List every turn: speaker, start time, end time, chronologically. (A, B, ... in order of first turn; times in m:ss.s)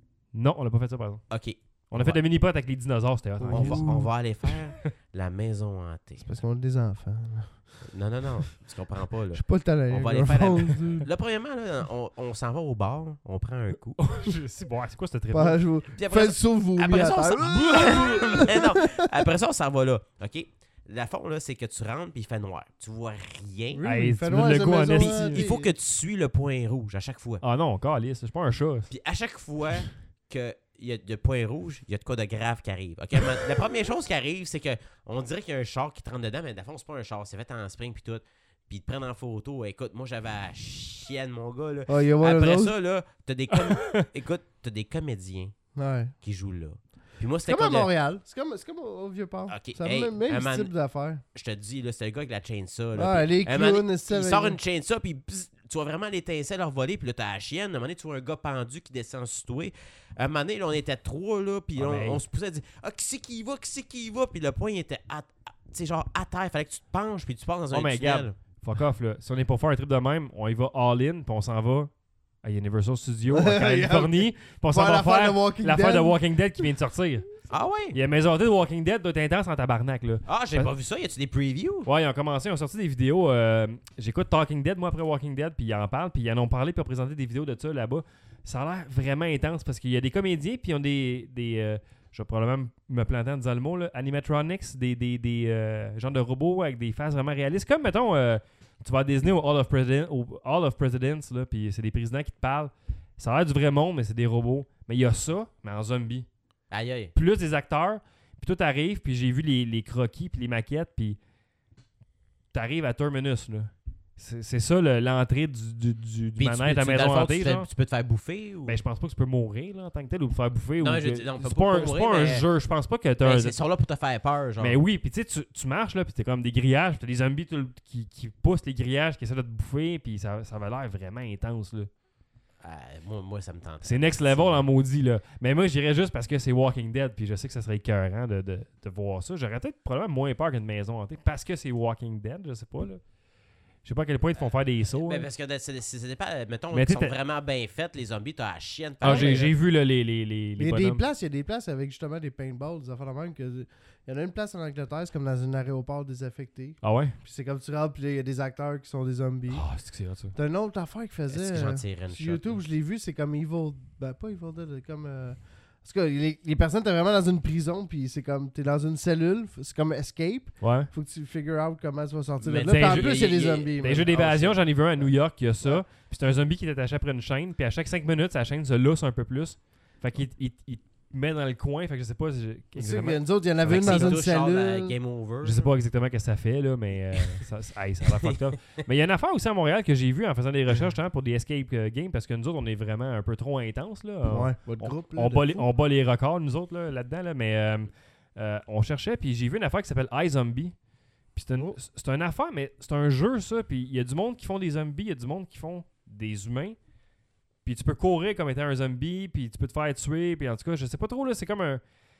0:00.3-0:01.2 A
0:01.3-0:02.2 B
0:01.9-0:04.9 A
0:03.4-0:04.1 C
0:03.5-0:06.3 B
0:06.2-0:07.7 C
0:07.9-0:14.0 B
0:09.3-0:11.1 C
0:14.0-0:15.6 A
0:15.3-0:19.1 C
0:16.0-0:23.8 B
0:17.7-0:18.4 A
0:23.7-0:25.7 C
0:23.8-0:25.5 A
0:25.0-0:27.4 B
0:27.4-0:28.9 A
0:28.9-0:45.6 B
0:41.9-0:42.8 C
0:43.6-0:44.0 A
0:45.8-0:46.1 C
0:46.2-0:47.9 B
0:47.5-0:51.2 C
0:49.5-0:50.7 B
0:51.3-1:08.3 B
0:53.0-0:54.6 C
1:01.8-1:02.2 A
1:07.7-1:17.3 A
1:13.3-1:16.2 C
1:17.5-1:18.0 B
1:17.9-1:20.7 A
1:20.3-1:21.9 B
1:21.8-1:46.3 A
1:46.7-1:47.1 B
1:47.1-1:51.2 A
1:52.5-1:57.7 A
1:56.4-1:58.8 B
1:58.7-2:03.6 A
2:00.8-2:02.5 B
2:03.2-2:04.8 B
2:04.6-2:11.9 A
2:12.6-2:14.6 B
2:13.8-2:23.0 A
2:23.8-2:25.3 A
2:24.4-2:29.5 B
2:26.7-2:27.2 A
2:29.0-2:29.5 C
2:29.0-2:31.0 A
2:30.6-2:39.7 C
2:36.8-2:37.2 A
2:39.5-2:40.3 A
2:40.3-2:54.1 C
2:41.3-2:42.6 B
2:50.6-2:50.9 A
2:52.4-2:54.9 B
2:52.7-3:04.2 A
3:02.8-3:05.0 C
3:03.7-3:05.7 B
3:05.4-3:20.8 A
3:08.1-3:08.4 B
3:14.2-3:15.7 C
3:21.3-3:26.8 A
3:27.6-3:31.8 A